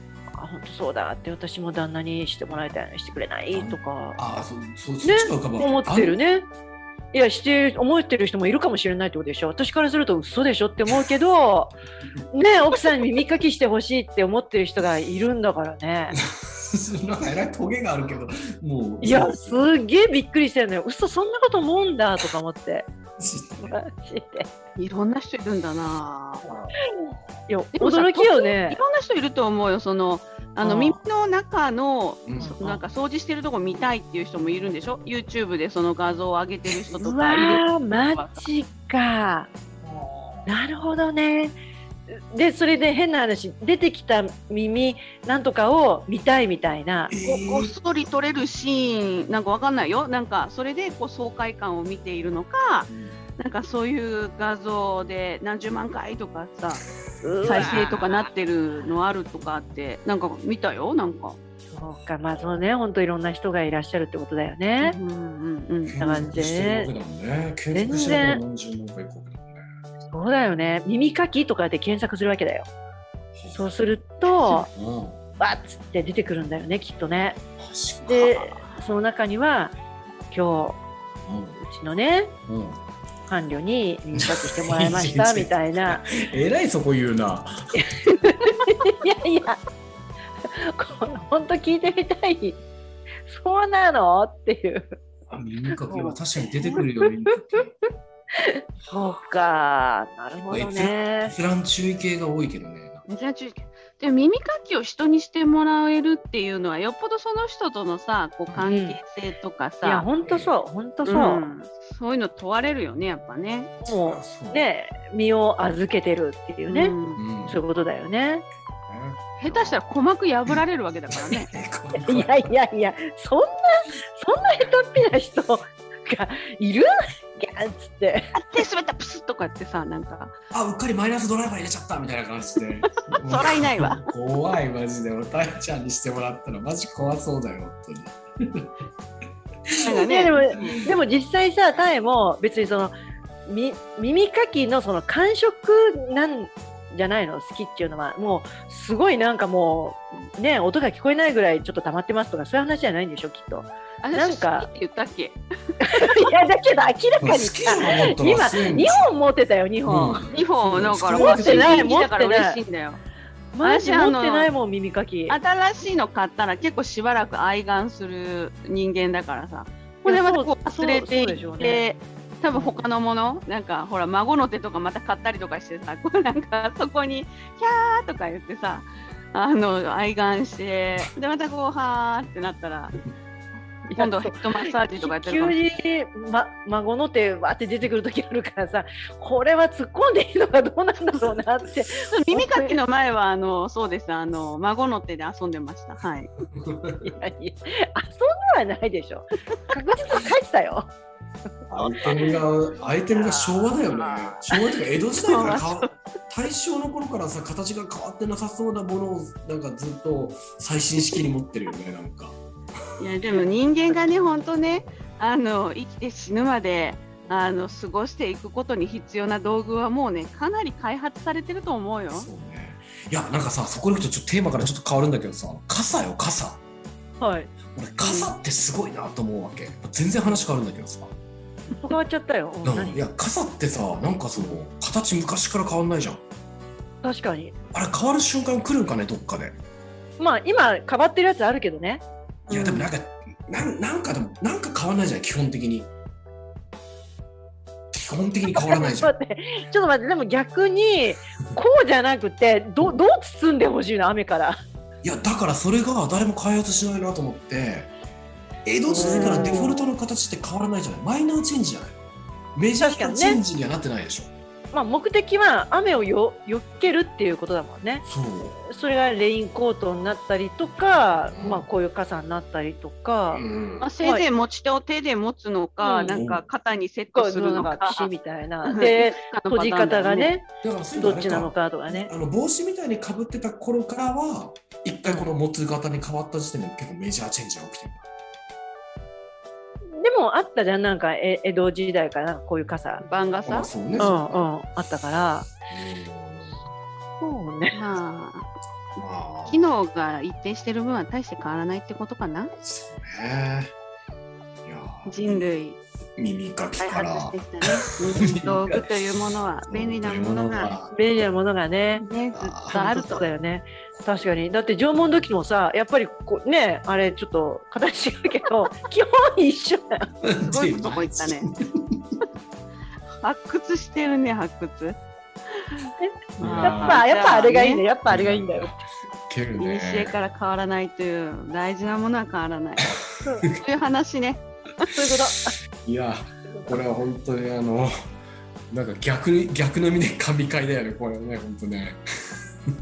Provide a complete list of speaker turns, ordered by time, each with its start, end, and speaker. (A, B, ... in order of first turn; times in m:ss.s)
0:00.3-0:04.2 A
0:03.5-0:06.2 B
0:05.0-0:06.4 A
0:07.1-0:11.7 A
0:12.3-0:16.2 A
0:16.1-0:19.7 B
0:19.0-0:22.9 A
0:23.2-0:23.8 B
0:23.6-0:24.5 A
0:24.8-0:26.4 C
0:26.4-0:27.1 B
0:26.9-0:28.8 A
0:27.8-0:38.4 C
0:30.6-0:31.0 A
0:32.2-0:32.6 B
0:32.4-0:32.8 A
0:37.0-0:39.5 A
0:39.8-0:40.4 B
0:40.5-0:41.6 A
0:42.1-0:47.1 A
0:47.1-0:47.7 B
0:47.2-0:56.8 C
0:52.9-0:53.1 B
0:57.2-0:58.1 A
0:57.4-0:57.9 B
0:57.4-1:01.4 C
1:01.7-1:05.0 A
1:04.8-1:06.0 C
1:05.9-1:09.6 B
1:06.0-1:06.9 A
1:07.7-1:08.4 A
1:10.1-1:12.7 A
1:13.3-1:13.7 B
1:13.5-1:14.7 A
1:14.3-1:14.7 C
1:14.7-1:15.2 B
1:15.4-1:17.4 A
1:17.6-1:18.3 B
1:18.0-1:19.8 A
1:18.2-1:18.7 C
1:20.3-1:20.8 A
1:21.2-1:21.6 B
1:21.6-1:22.3 A
1:22.5-1:22.8 B
1:23.3-1:26.2 A
1:24.1-1:27.9 B
1:27.8-1:29.6 A
1:30.4-1:32.6 A
1:33.2-1:35.0 A
1:35.3-1:37.7 B
1:35.7-1:37.1 A
1:38.4-1:41.3 A
1:40.5-1:43.0 B
1:43.1-1:50.1 C
1:48.6-1:49.0 A
1:49.8-1:51.4 A
1:50.2-1:50.5 B
1:51.0-1:53.7 C
1:53.8-1:54.6 B
1:53.8-1:56.9 A
1:56.7-1:57.2 C
1:57.2-1:57.6 B
1:57.4-1:58.4 A
1:58.9-1:59.9 B
1:59.4-2:01.5 C
2:01.1-2:02.5 B
2:01.9-2:08.3 A
2:08.4-2:10.3 C
2:10.5-2:18.6 B
2:13.1-2:14.0 C
2:19.8-2:20.6 C
2:19.9-2:22.9 A
2:20.6-2:20.9 B
2:23.5-2:34.7 A
2:34.0-2:35.4 C
2:35.8-2:40.3 A
2:37.2-2:39.1 B
2:39.8-2:41.9 B
2:40.3-2:43.0 C
2:41.1-2:42.6 A
2:43.5-2:45.4 A
2:43.6-2:44.5 C
2:45.3-3:02.9 C
2:50.0-2:51.8 A
2:52.5-2:52.8 A
3:03.9-3:05.6 C
3:03.9-3:12.8 A
3:12.0-3:16.3 C
3:16.6-3:17.1 B
3:17.0-3:20.9 A
3:21.7-3:32.4 B
3:21.8-3:22.3 A
3:23.1-3:24.4 C
3:25.2-3:26.0 C
3:33.0-3:42.3 C
3:37.2-3:37.5 B
3:42.1-3:46.6 B
3:47.2-3:47.5 A
3:47.7-3:51.1 B
3:48.0-3:48.4 C
3:51.8-3:53.0 A
3:52.6-3:56.2 B
3:57.0-3:57.5 A
3:57.7-3:59.5 B
4:00.2-4:02.0 A
4:02.5-4:05.9 B
4:02.5-4:02.9 C
4:07.9-4:09.1 B
4:08.5-4:14.6 A
4:15.0-4:17.9 B
4:18.6-4:22.0 B
4:18.8-4:19.9 A
4:22.6-4:24.3 B
4:22.8-4:23.4 A
4:24.7-4:28.0 A
4:28.0-4:28.6 B
4:28.7-4:33.4 A
4:31.3-4:31.7 B
4:33.3-4:33.9 B
4:33.8-4:38.1 C
4:35.8-4:36.2 A
4:36.1-4:36.4 B
4:37.1-4:42.1 A
4:38.6-4:40.3 C
4:40.6-4:48.0 B
4:50.0-4:53.0 A
4:53.0-4:53.7 C
4:53.5-4:54.4 B
4:54.0-4:55.5 A
4:55.7-4:56.6 B
4:57.2-4:57.8 A
4:57.7-4:58.4 C
4:59.0-4:59.6 B
4:59.5-5:02.5 C
5:02.6-5:03.7 B
5:04.6-5:05.5 B
5:05.0-5:05.8 C
5:06.2-5:08.8 B
5:06.8-5:10.7 C
5:09.7-5:10.9 B
5:10.9-5:12.0 A
5:11.9-5:13.3 C
5:12.3-5:12.9 B
5:12.7-5:20.1 A
5:20.2-5:22.1 B
5:20.4-5:21.5 C
5:23.2-5:25.0 C
5:25.6-5:25.9 C
5:26.0-5:28.7 A
5:26.4-5:27.0 B
5:26.4-5:27.8 C
5:28.0-5:28.8 B
5:29.3-5:30.2 B
5:29.6-5:32.9 C
5:33.6-5:35.0 C
5:34.9-5:35.5 A
5:35.8-5:37.9 B
5:36.4-5:36.8 A
5:38.7-5:42.0 B